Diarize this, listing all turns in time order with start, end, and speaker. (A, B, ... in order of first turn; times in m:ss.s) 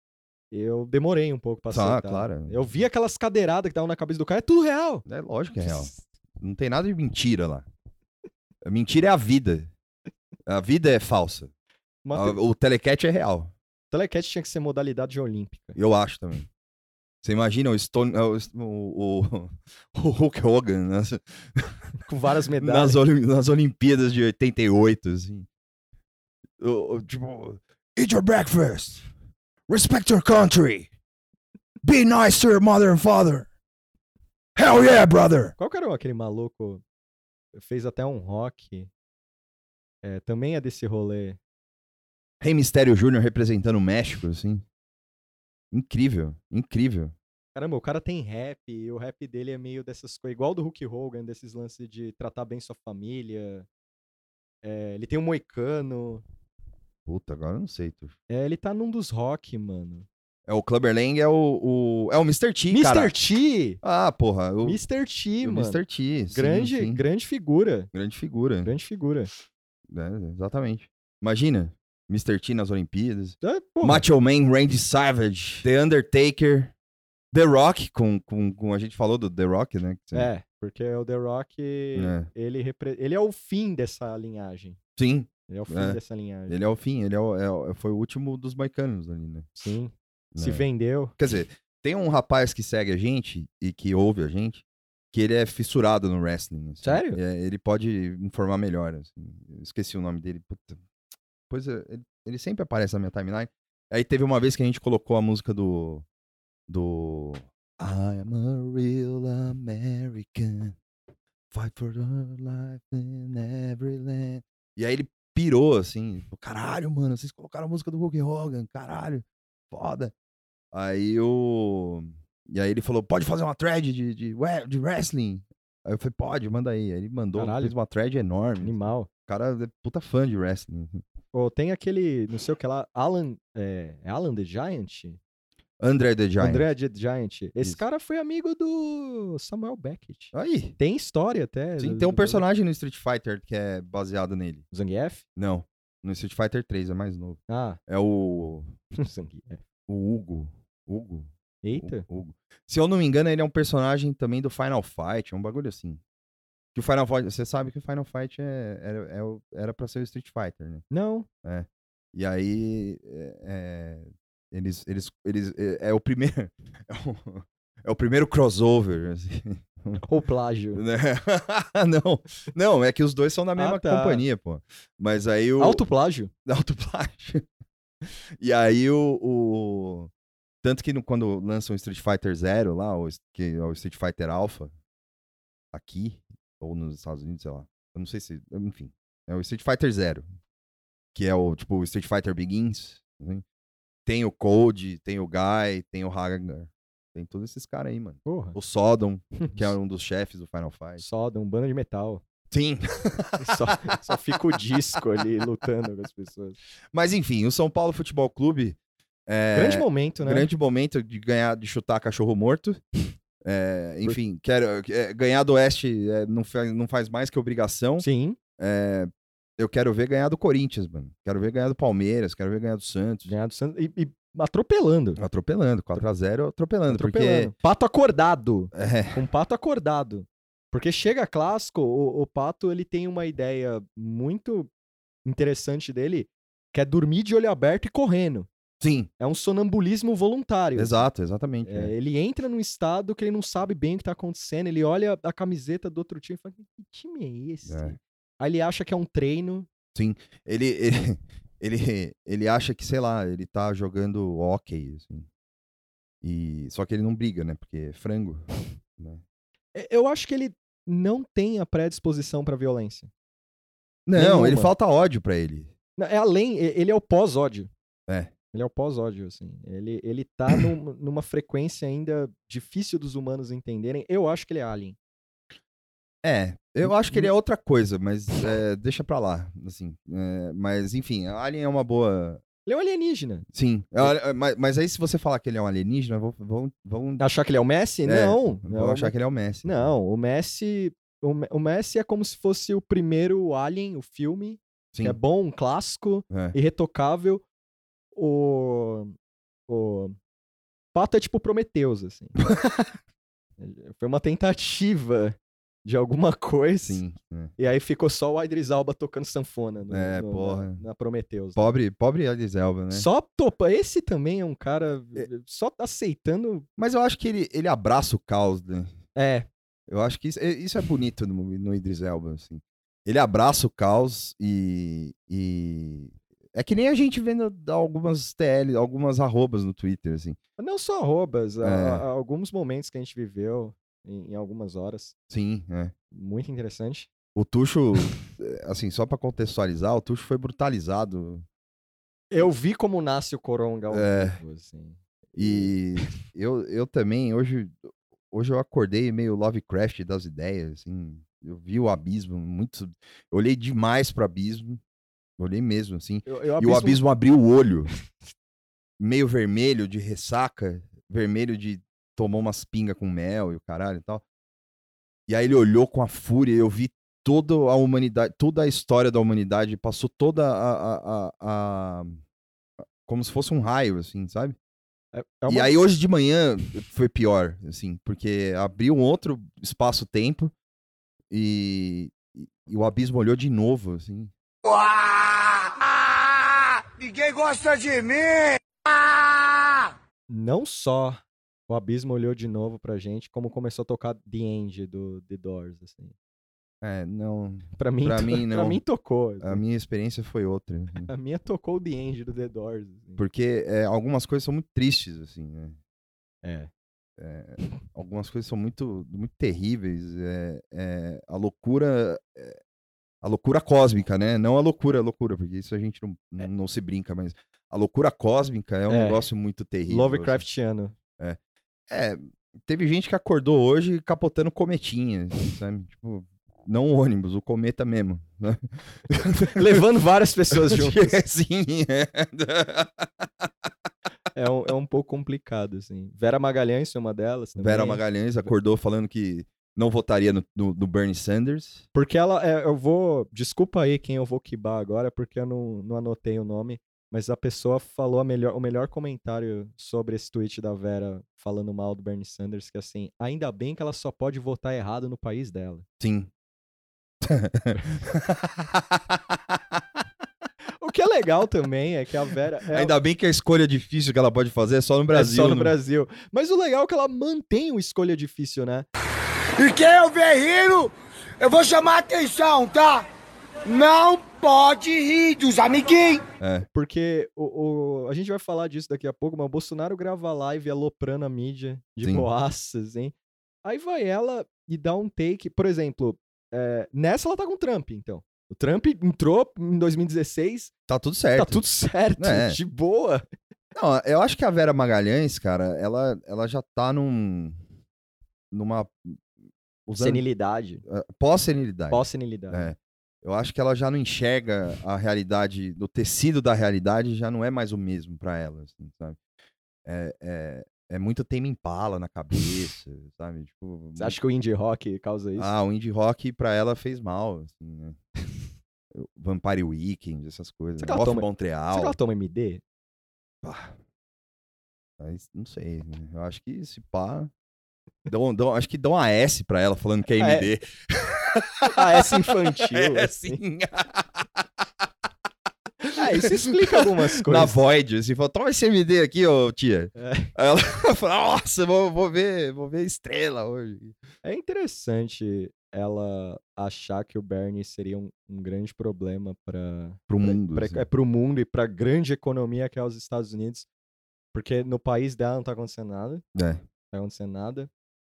0:00.5-0:05.0 A
0:01.7-0:02.6 B
0:05.0-0:07.6 B
0:08.6-0:09.7 B
0:10.4-0:11.5 B
0:12.0-0:12.4 A
0:12.1-0:13.5 B
0:13.9-0:15.8 A
0:15.8-0:16.5 B
0:17.2-0:21.8 B
0:22.0-0:23.0 A
0:22.6-0:25.5 B
0:26.6-0:29.0 B
0:29.7-0:30.9 B
0:31.8-0:33.5 B
0:34.6-0:35.5 B
0:35.6-0:36.8 A
0:37.6-0:38.9 A
0:40.0-0:41.4 A
0:42.4-0:44.6 B
0:45.7-0:47.1 B
0:47.5-0:53.7 A
0:54.6-0:56.2 A
0:57.0-0:58.1 B
0:58.3-1:00.1 A
1:00.5-1:03.1 B
1:02.7-1:03.8 A
1:03.8-1:04.8 B
1:04.6-1:05.8 A
1:05.4-1:07.0 B
1:06.3-1:07.9 A
1:07.9-1:08.7 B
1:08.6-1:09.3 A
1:09.9-1:16.7 B
1:13.4-1:14.0 A
1:17.3-1:20.3 B
1:20.1-1:24.8 A
1:22.0-1:22.3 B
1:25.0-1:29.5 B
1:25.5-1:26.6 A
1:29.6-1:31.1 A
1:30.3-1:30.6 B
1:31.2-1:40.8 B
1:36.8-1:37.2 A
1:41.5-1:46.0 B
1:46.7-1:50.8 B
1:51.5-2:00.1 B
2:00.7-2:08.8 B
2:07.3-2:07.7 A
2:08.6-2:09.1 A
2:09.3-2:11.0 B
2:11.3-2:15.2 A
2:15.8-2:16.7 B
2:16.4-2:22.4 A
2:20.3-2:20.8 B
2:21.8-2:24.6 B
2:24.7-2:25.2 A
2:25.4-2:28.7 B
2:27.5-2:27.8 A
2:28.9-2:29.6 A
2:29.9-2:36.0 B
2:31.6-2:32.0 A
2:36.7-2:40.8 B
2:40.9-2:41.3 A
2:41.4-2:50.0 B
2:50.0-2:50.8 A
2:50.7-2:55.8 B
2:53.6-2:54.2 A
2:55.6-2:56.3 A
2:56.4-2:57.4 B
2:58.0-3:00.1 B
3:00.6-3:04.7 B
3:05.7-3:10.3 B
3:11.1-3:13.4 B
3:14.0-3:21.0 B
3:18.2-3:18.6 A
3:19.4-3:19.7 A
3:21.0-3:22.2 A
3:22.5-3:24.6 B
3:23.4-3:26.6 A
3:26.9-3:32.8 B
3:29.5-3:30.5 A
3:33.4-3:38.1 B
3:38.0-3:38.4 A
3:38.6-3:43.3 B
3:43.2-3:45.2 A
3:45.2-3:47.5 B
3:46.9-3:54.7 A
3:48.7-3:49.2 B
3:55.2-3:58.5 A
3:58.8-3:59.1 B
3:59.2-4:01.1 A
4:00.8-4:01.9 B
4:01.6-4:09.7 A
4:07.6-4:08.0 B
4:09.9-4:15.3 B
4:16.2-4:18.4 B
4:19.0-4:19.2 B
4:19.7-4:23.1 A
4:24.1-4:25.7 B
4:24.1-4:24.7 A
4:26.0-4:27.7 A
4:28.1-4:28.3 B
4:28.5-4:35.0 A
4:36.2-4:42.4 B
4:36.8-4:37.3 A
4:42.6-4:43.5 A
4:43.5-4:47.2 B
4:47.2-4:57.4 A
4:48.0-4:49.8 B
4:56.3-4:56.6 B
4:58.1-4:59.2 A
4:59.7-5:00.2 A
5:00.9-5:02.4 A
5:02.4-5:02.9 B
5:03.6-5:07.0 A
5:06.8-5:07.5 B
5:07.6-5:11.7 A
5:09.9-5:10.8 B
5:11.6-5:13.1 B
5:12.9-5:16.7 A
5:16.8-5:18.9 B
5:19.1-5:19.5 A
5:19.9-5:30.4 B
5:30.6-5:35.1 A
5:31.6-5:32.0 B
5:35.3-5:35.9 B
5:36.1-5:37.1 A
5:37.3-5:41.4 B
5:42.3-5:45.7 A
5:43.9-5:44.4 B
5:45.4-5:47.8 B
5:48.3-5:54.8 B
5:55.4-5:57.9 B
5:56.2-5:57.0 A
5:59.0-6:04.2 B
6:05.3-6:12.2 B
6:13.0-6:14.6 B
6:15.1-6:15.7 A
6:15.5-6:20.5 B
6:21.3-6:24.3 B
6:24.6-6:29.9 C
6:30.3-6:36.1 A
6:36.8-6:38.8 B
6:37.8-6:39.6 A
6:39.4-6:41.1 B
6:41.0-6:43.2 A
6:43.2-6:45.8 B
6:46.4-6:46.7 A
6:47.2-6:52.6 B
6:53.2-7:00.4 B
6:58.9-6:59.2 A
6:59.8-7:00.9 A
7:01.9-7:09.8 B
7:09.4-7:11.1 A
7:10.5-7:13.5 B
7:14.3-7:18.0 A
7:17.6-7:21.8 B
7:21.9-7:35.8 A
7:36.0-7:36.3 B
7:37.2-7:40.0 B
7:40.8-7:42.9 A
7:42.7-7:45.7 B
7:45.1-7:48.9 A
7:49.6-7:53.0 C
7:53.6-7:56.2 C
7:56.4-7:56.7 B
7:56.7-8:10.7 A
8:02.0-8:02.3 B
8:10.9-8:11.6 B
8:11.4-8:13.2 A
8:12.2-8:12.6 B
8:13.7-8:17.6 B
8:18.5-8:19.2 B
8:19.9-8:20.2 B
8:20.0-8:20.8 A
8:20.8-8:29.2 B
8:21.9-8:22.7 A
8:29.8-8:34.2 B
8:34.0-8:35.5 A
8:35.4-8:38.0 B
8:38.9-8:42.0 B
8:40.8-8:42.6 A
8:43.4-8:43.8 B
8:45.0-8:47.3 B
8:48.1-8:54.4 B
8:50.2-8:50.5 A
8:51.6-8:53.4 A
8:55.8-9:04.0 B
8:55.9-8:57.6 A
9:00.0-9:00.3 A
9:04.2-9:13.7 A
9:10.1-9:10.8 B
9:14.3-9:16.2 A
9:16.3-9:16.6 B
9:16.9-9:17.7 A